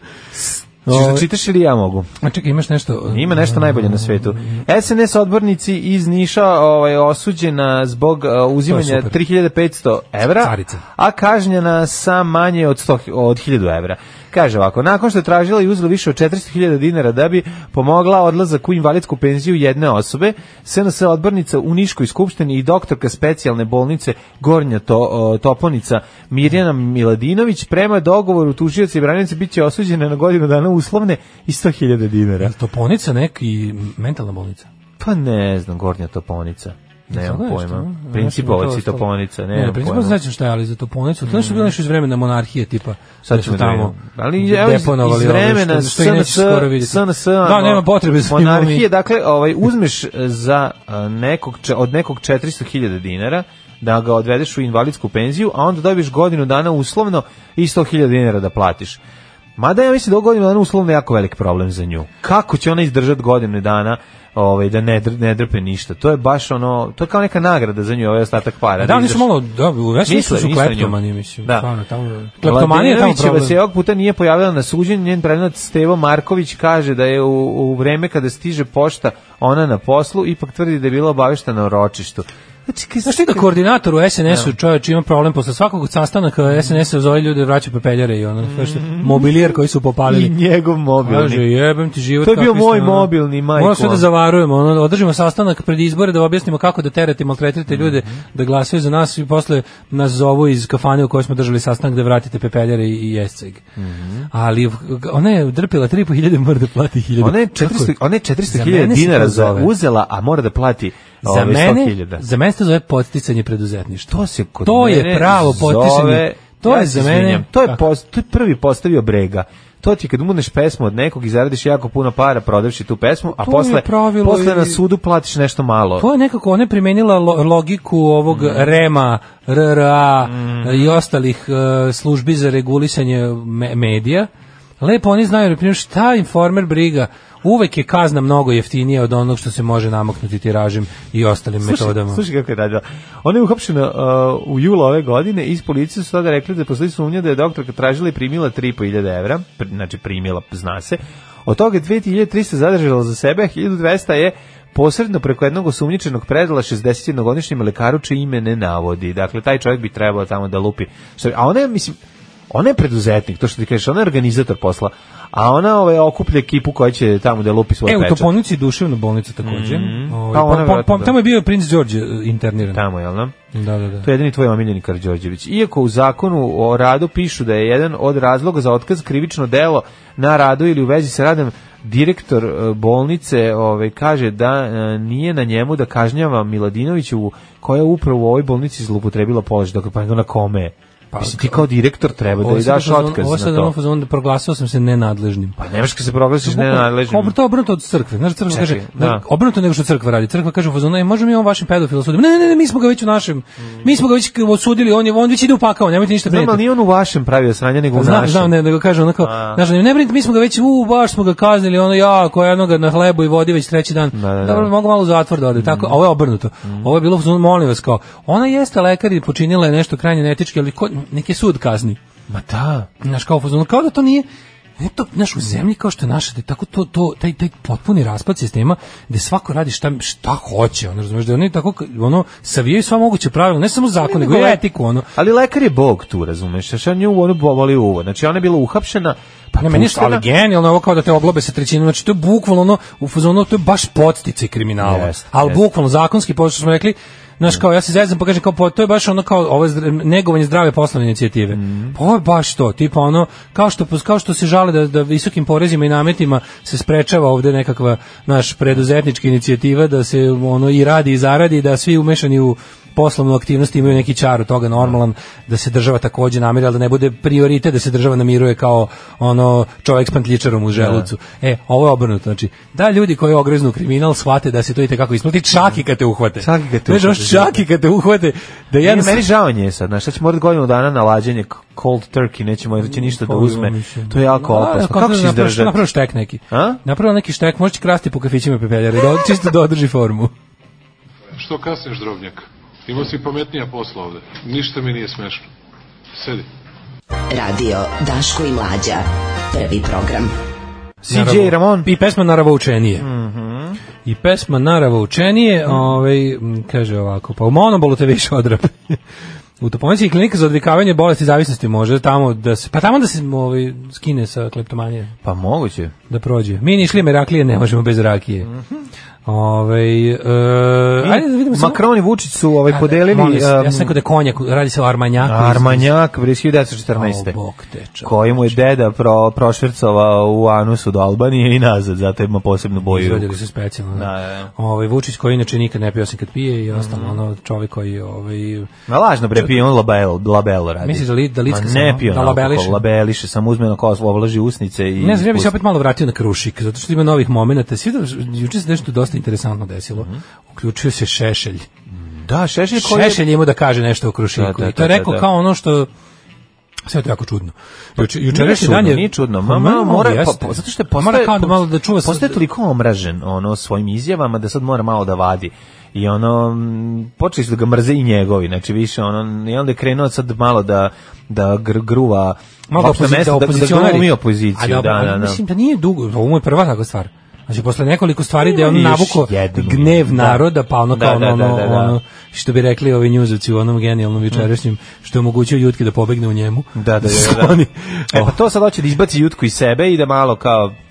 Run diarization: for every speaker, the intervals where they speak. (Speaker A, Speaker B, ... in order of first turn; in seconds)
Speaker A: 0.4-2.1, 3.1-32.5, 35.0-40.2, 41.2-41.7, 43.2-59.0, 59.6-69.3, 70.0-71.7, 72.4-83.6, 88.4-89.4, 90.1-91.4, 92.2-94.1, 97.7-98.1, 103.8-104.3, 107.2-112.2, 114.1-126.1, 128.3-128.7, 130.3-131.0, 141.6-162.0, 162.5-168.3, 169.4-171.2, 172.7-173.4, 174.0-193.7, 195.6-197.3, 198.5-199.2, 206.3-208.5, 209.2-209.6, 214.1-214.7, 215.6-216.0, 216.6-216.9, 222.3-222.9, 234.0-240.2, 244.8-245.6, 251.5-252.0, 270.8-271.1, 276.4-277.6, 278.8-285.8, 286.5-286.8, 301.1-301.9, 303.0-303.8, 315.2-315.9, 318.4-318.8, 321.0-323.9, 325.2-327.4, 328.0-333.3, 333.9-334.5, 336.7-337.2, 338.9-345.6, 351.9-353.2, 354.4-355.3, 358.0-375.4, 378.4-382.0, 386.8-387.6, 388.1-390.8
Speaker B: 0.9-1.3, 2.2-4.6, 8.7-9.2, 10.4-10.8, 32.4-34.7, 37.1-48.9, 68.8-73.6, 83.0-90.3, 91.0-103.6, 104.3-108.0, 108.5-109.7, 111.2-117.8, 123.4-124.8, 126.0-134.3, 134.8-142.2, 167.9-172.8, 173.5-174.1, 191.1-191.7, 192.4-195.6, 196.4-206.6, 207.9-222.0, 223.0-224.3, 224.8-235.1, 239.6-279.2, 282.8-290.3, 301.1-303.1, 304.1-309.0, 309.6-315.1, 316.1-318.5, 319.3-321.8, 322.7-325.9, 326.9-328.6, 332.9-338.7, 340.8-342.8, 345.0-351.7, 352.8-355.9, 356.9-362.4, 372.7-388.3
Speaker C: 291.3-295.5, 296.1-296.5
Speaker D: 297.3-300.3